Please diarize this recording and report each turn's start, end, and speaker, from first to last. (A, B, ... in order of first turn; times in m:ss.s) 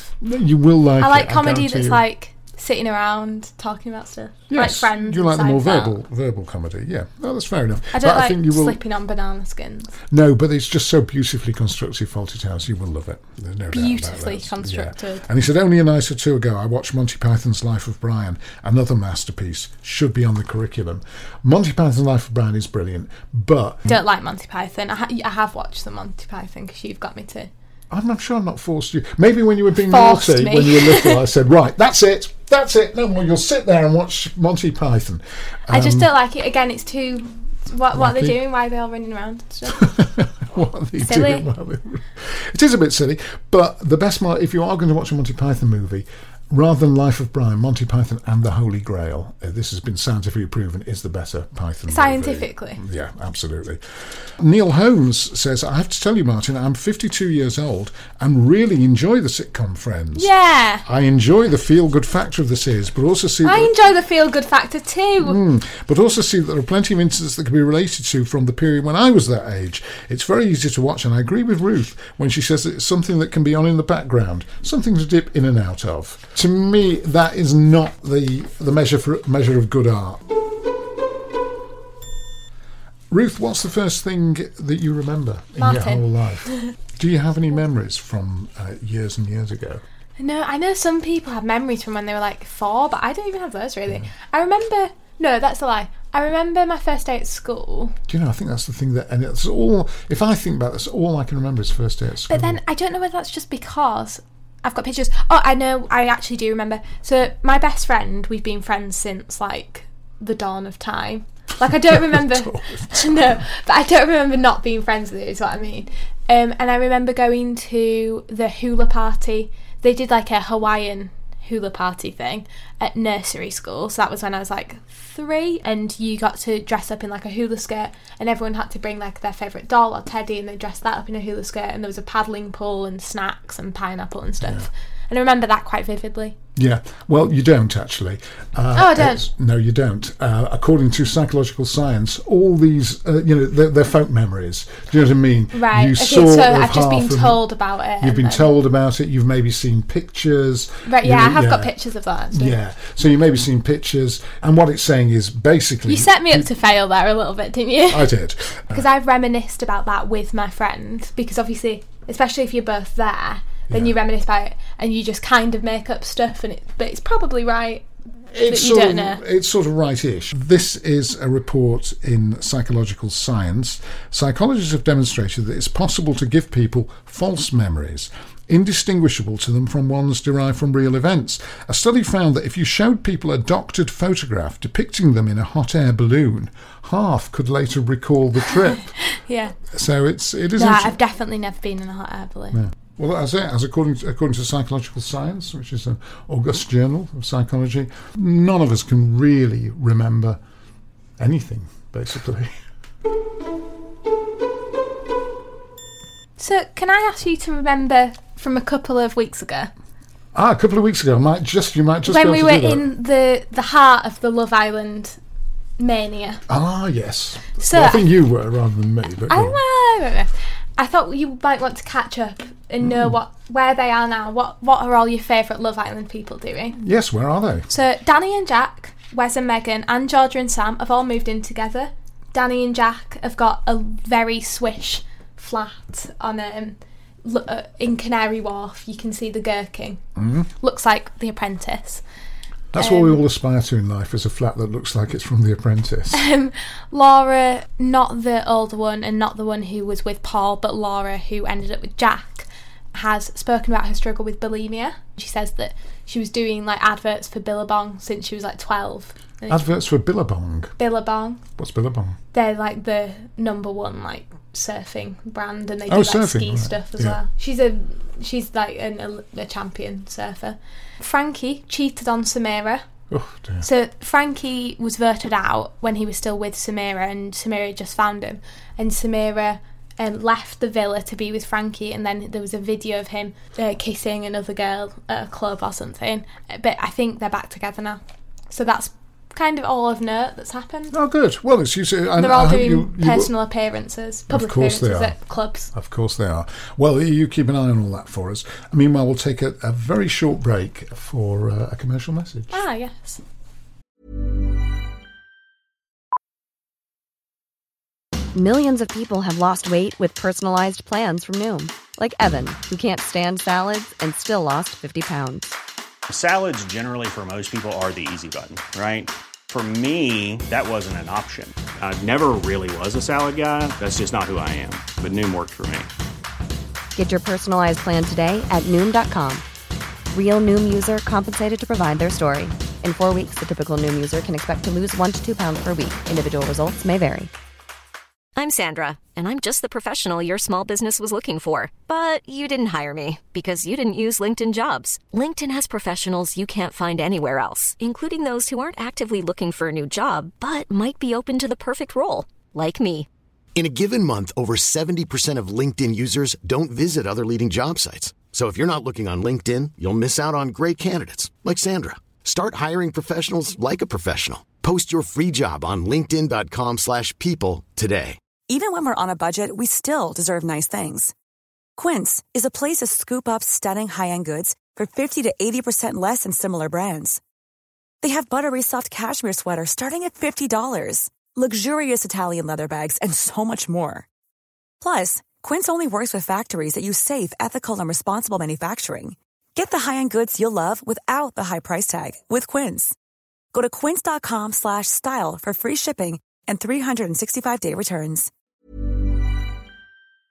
0:00.2-0:02.0 A
0:01.0-0:05.9 B
0:04.5-0:08.8 A
0:07.9-0:09.9 B
0:10.1-0:23.9 A
0:13.7-0:15.2 B
0:23.9-0:27.5 B
0:27.9-0:36.1 A
0:29.8-0:31.2 B
0:35.7-0:39.9 B
0:37.9-0:38.4 A
0:39.7-0:53.8 A
0:41.0-0:41.4 B
0:51.9-0:52.8 B
0:54.4-1:00.3 A
1:00.2-1:00.8 B
1:00.8-1:03.7 A
1:03.4-1:05.4 B
1:05.2-1:20.2 A
1:23.1-1:29.8 A
1:25.6-1:26.6 B
1:30.2-1:38.0 B
1:38.1-1:42.6 A
1:42.3-2:16.4 B
1:51.9-1:53.4 A
2:14.4-2:14.7 A
2:16.6-2:27.4 A
2:18.7-2:19.2 B
2:25.5-2:28.5 B
2:28.0-2:31.7 A
2:30.8-2:32.6 B
2:32.3-2:36.5 A
2:35.9-2:38.1 B
2:37.9-2:38.8 A
2:38.7-2:47.8 B
2:43.7-2:44.0 A
2:48.3-3:08.9 A
2:48.4-2:49.2 B
3:09.0-3:09.6 B
3:09.6-3:11.0 A
3:10.6-3:12.6 B
3:12.5-3:20.4 A
3:21.2-3:22.6 A
3:26.4-3:29.7 B
3:30.3-3:32.8 A
3:32.0-3:35.2 B
3:35.8-3:36.4 B
3:36.5-3:39.6 A
3:37.6-3:38.1 B
3:39.3-3:46.8 B
3:42.8-3:43.1 A
3:46.7-3:47.7 A
3:47.7-4:00.0 B
4:00.2-4:00.5 A
4:00.6-4:02.0 B
4:02.7-4:06.2 A
4:02.8-4:03.2 B
4:06.1-4:19.6 B
4:19.5-4:20.7 A
4:20.8-4:21.4 B
4:21.6-4:22.2 A
4:22.3-4:32.9 B
4:25.9-4:27.2 A
4:33.1-4:33.6 A
4:33.6-4:50.9 B
4:50.9-4:53.3 A
4:52.2-4:55.7 B
4:54.3-4:55.2 A
4:55.7-5:02.6 A
5:02.5-5:03.2 B
5:08.3-5:15.5 C
5:16.1-5:25.9 D
5:27.0-5:29.4 C
5:30.1-5:37.3 C
5:38.3-5:53.1 E
5:53.5-6:08.2 F
6:08.5-6:11.1 G
6:11.8-6:17.2 G
6:18.0-6:24.0 G
6:24.8-6:32.9 G
6:33.5-6:38.3 G